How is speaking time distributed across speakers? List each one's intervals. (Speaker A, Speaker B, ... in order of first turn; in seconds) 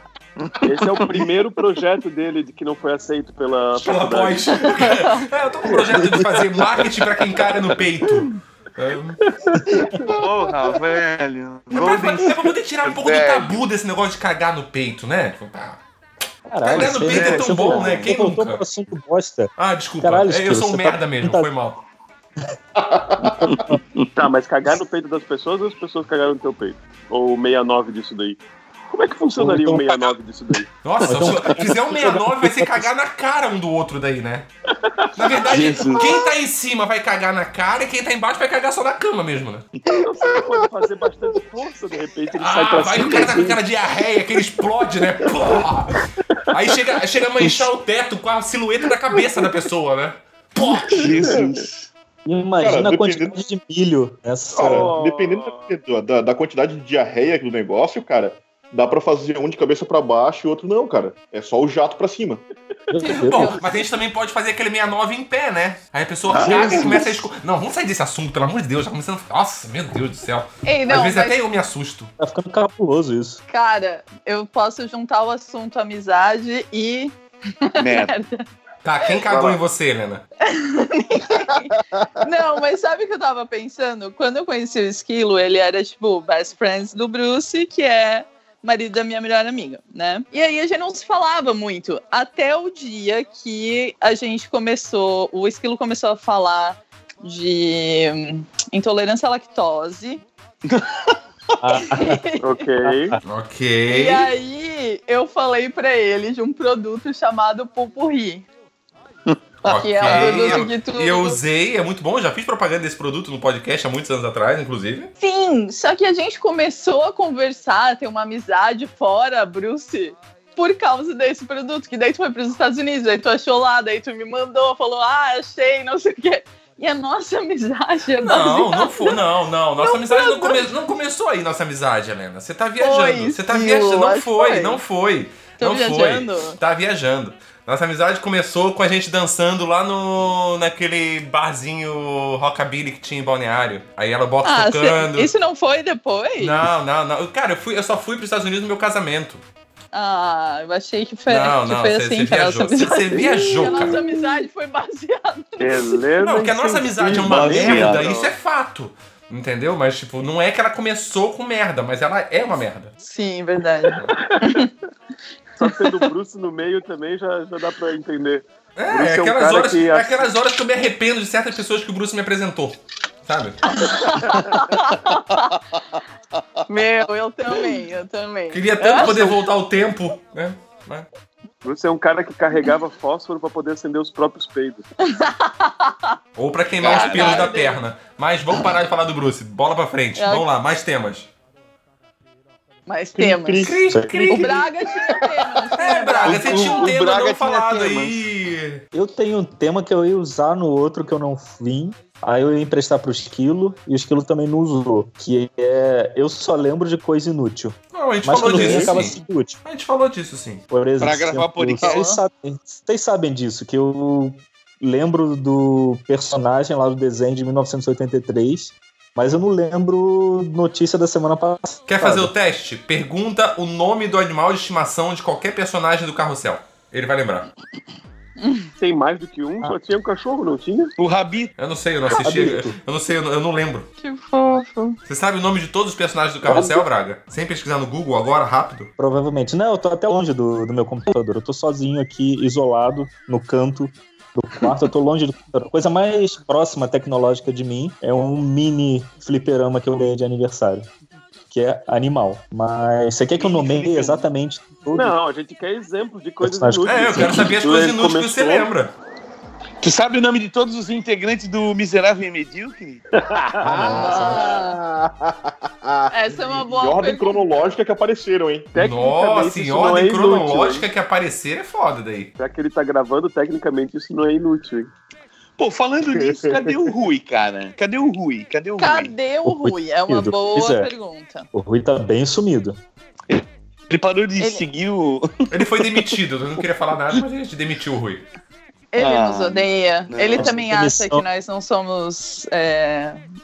Speaker A: 0.4-1.3, 10.2-13.6, 16.8-18.1, 23.4-24.1, 35.5-36.2, 47.4-47.7, 50.6-51.9, 66.3-67.2, 77.8-78.1, 100.7-101.0, 109.3-110.7, 157.1-158.2, 186.8-187.5, 196.2-198.2, 211.0-212.1, 231.0-231.5, 253.4-254.2, 259.8-263.0, 275.6-279.1, 283.3-285.5, 289.0-290.6
Speaker B: 0.6-4.9, 9.3-10.1, 24.2-28.4, 28.9-30.7, 34.7-35.5, 39.9-43.6, 50.9-51.6, 54.6-55.7, 79.3-79.6, 102.4-103.2, 153.6-153.9, 155.6-158.3, 164.1-164.7, 165.6-170.3, 174.0-174.7, 179.0-179.3, 181.6-184.8, 228.8-230.9, 254.9-258.7, 263.1-263.7, 268.7-270.9, 272.4-274.9
Speaker C: 3.8-9.2, 11.7-15.8, 16.6-18.6, 19.6-21.8, 30.8-34.5, 35.1-39.7, 42.4-51.3, 63.2-72.1, 78.8-80.2, 103.2-104.3, 109.7-115.1, 128.2-145.3, 146.4-149.4, 151.3-154.0, 156.2-162.9, 168.8-173.8, 178.5-181.1, 186.4-191.3, 193.6-194.6, 195.8-198.8, 207.9-210.6, 221.9-227.5, 231.6-233.9, 235.1-238.9, 256.9-258.9, 268.8-272.3, 285.5-288.3
Speaker D: 16.5-21.5, 23.4-23.8, 29.4-30.1, 31.0-32.9, 52.3-54.9, 62.9-63.6, 72.2-73.4, 101.6-102.2, 102.8-103.2, 193.9-194.4, 198.9-209.6, 210.7-222.3, 232.2-232.8, 236.5-236.8, 239.0-250.9, 251.5-255.2, 256.4-257.4, 263.6-264.5, 279.4-280.9, 281.5-282.8, 290.4-291.2
Speaker E: 22.8-23.5, 52.6-53.4, 54.6-62.4, 193.2-196.0, 208.5-208.9, 263.6-268.7, 276.1-276.9
Speaker F: 63.0-63.9, 70.6-71.4, 73.5-77.2, 77.7-78.5, 80.5-100.2, 101.8-102.6, 103.9-108.5, 109.7-111.4, 115.2-129.2, 129.8-130.7, 132.8-134.8, 135.6-136.6, 144.4-146.6, 149.9-156.0, 163.0-164.7, 173.7-175.6, 176.7-179.1, 185.1-186.2, 186.8-187.8, 190.2-190.5, 192.9-193.7, 194.3-196.8, 211.8-212.2, 234.0-235.0, 263.9-264.8, 266.1-267.5, 278.8-281.5, 288.9-293.2